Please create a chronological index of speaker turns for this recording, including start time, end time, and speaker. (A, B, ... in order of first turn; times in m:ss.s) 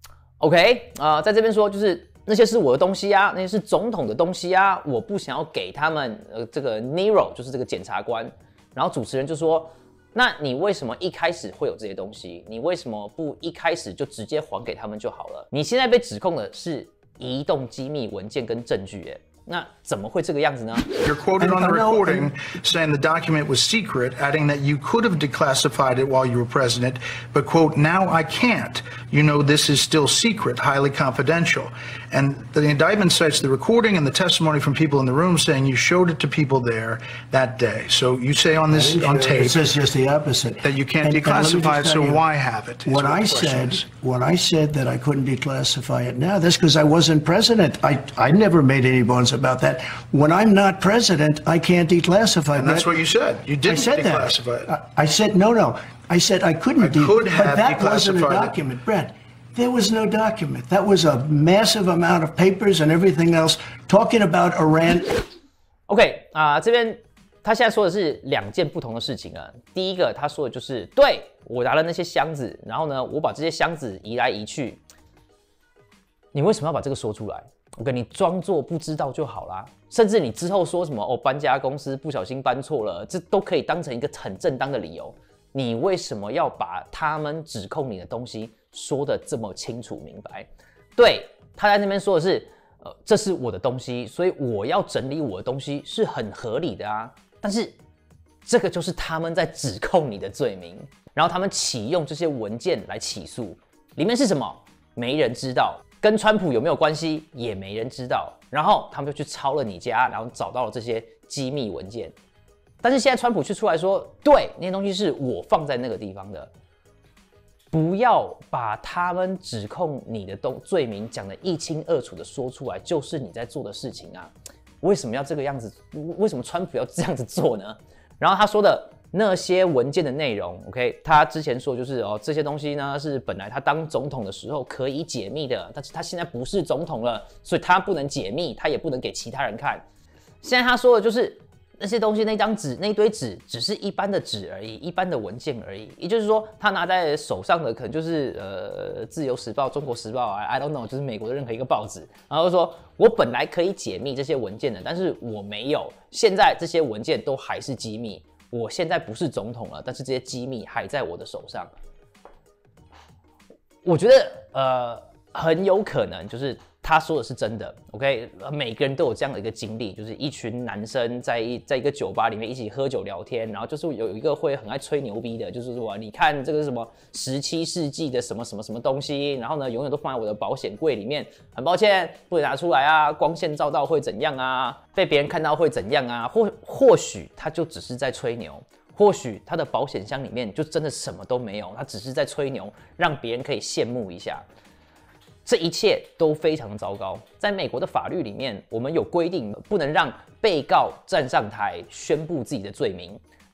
0:00.4-0:20.9 A
0:21.0-0:39.7 B
0:21.4-0:22.4 C
0:38.7-0:42.2 C
0:40.6-0:43.8 B
0:42.8-0:52.9 C
0:52.6-0:54.7 B
0:53.6-1:05.2 C
0:56.8-0:58.6 B
1:05.9-1:14.8 A
1:16.3-1:37.8 A
1:38.5-1:52.1 A
1:52.8-1:56.5 A
1:57.7-2:19.8 A
2:20.4-2:41.7 A
2:43.8-3:14.4 A
3:15.4-3:23.2 A